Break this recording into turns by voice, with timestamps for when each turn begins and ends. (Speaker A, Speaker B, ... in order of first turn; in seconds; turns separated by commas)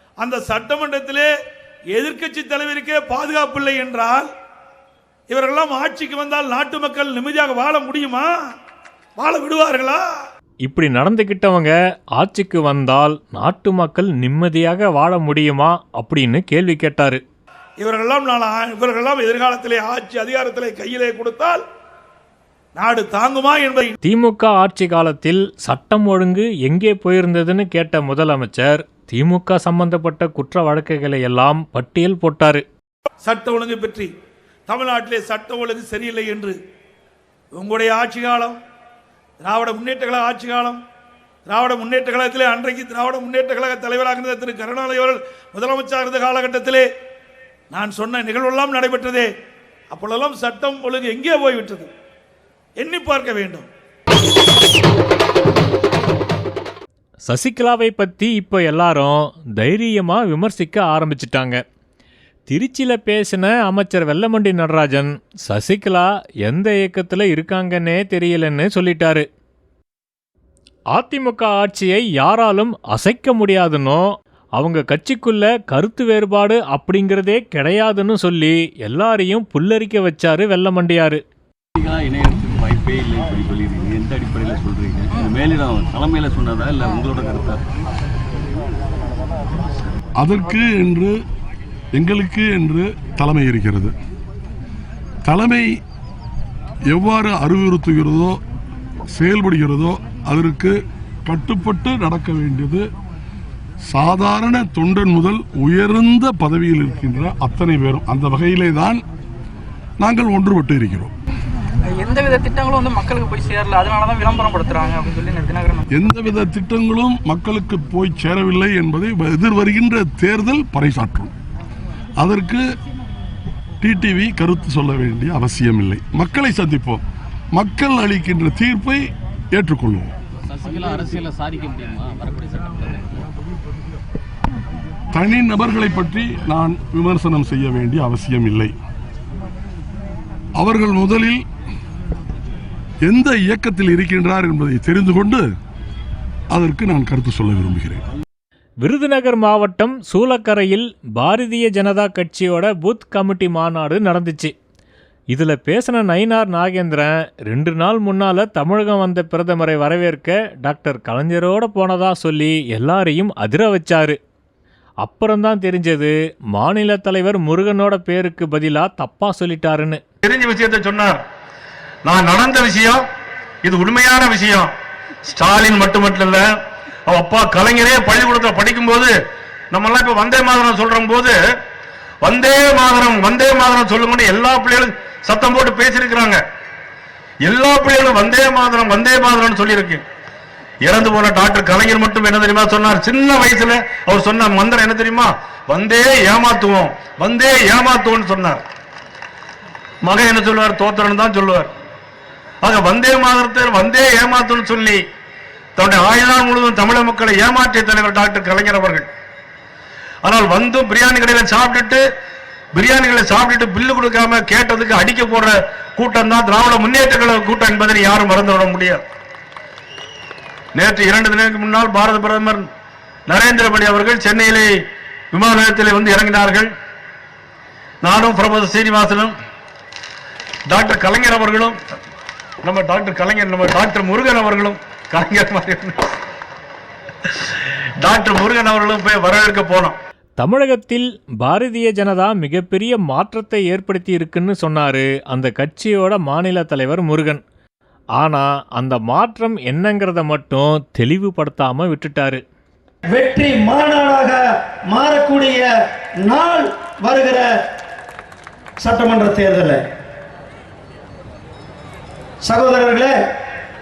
Speaker A: 0.2-1.3, Speaker A: 1.9-4.3, Speaker A: 5.3-8.3, Speaker A: 9.2-10.0, Speaker B: 10.7-17.2, Speaker A: 17.8-21.6, Speaker A: 22.8-23.9, Speaker B: 24.0-32.6, Speaker A: 33.2-34.1, Speaker A: 34.7-36.6, Speaker A: 37.5-38.6, Speaker A: 39.4-40.8, Speaker A: 41.5-46.9, Speaker A: 47.7-49.3, Speaker A: 49.9-51.9, Speaker A: 52.8-53.7, Speaker B: 57.3-61.6, Speaker B: 62.5-69.3, Speaker B: 70.9-81.2, Speaker C: 81.8-87.6, Speaker D: 90.2-91.2, Speaker D: 91.9-94.0, Speaker D: 95.2-95.7, Speaker D: 96.9-98.4, Speaker D: 99.1-102.8, Speaker D: 103.8-109.0, Speaker D: 110.0-111.1, Speaker E: 111.9-115.8, Speaker D: 115.9-121.3, Speaker D: 122.2-122.6, Speaker D: 123.8-127.0, Speaker D: 127.5-130.1, Speaker C: 130.5-133.2, Speaker D: 135.1-138.8, Speaker D: 140.6-141.4, Speaker D: 143.0-145.5, Speaker D: 146.5-148.0, Speaker B: 148.8-154.5, Speaker B: 155.3-164.2, Speaker B: 165.0-170.0, Speaker F: 170.2-171.2, Speaker F: 172.1-173.0, Speaker F: 173.6-174.7, Speaker F: 175.3-176.5, Speaker F: 177.1-179.1, Speaker F: 179.7-181.3, Speaker F: 182.2-186.4, Speaker F: 187.4-190.0, Speaker F: 190.8-198.6, Speaker F: 200.0-201.7, Speaker F: 202.6-205.0, Speaker F: 205.8-209.1, Speaker F: 210.2-212.0, Speaker F: 212.7-219.0, Speaker F: 220.8-222.7, Speaker F: 223.3-226.7, Speaker F: 228.0-229.3, Speaker F: 230.7-231.8, Speaker F: 232.6-236.1, Speaker F: 237.2-240.0, Speaker B: 240.4-247.4, Speaker B: 248.2-252.4, Speaker G: 253.1-254.4, Speaker G: 254.9-255.7, Speaker G: 256.2-257.4, Speaker G: 258.8-259.8, Speaker G: 262.4-263.1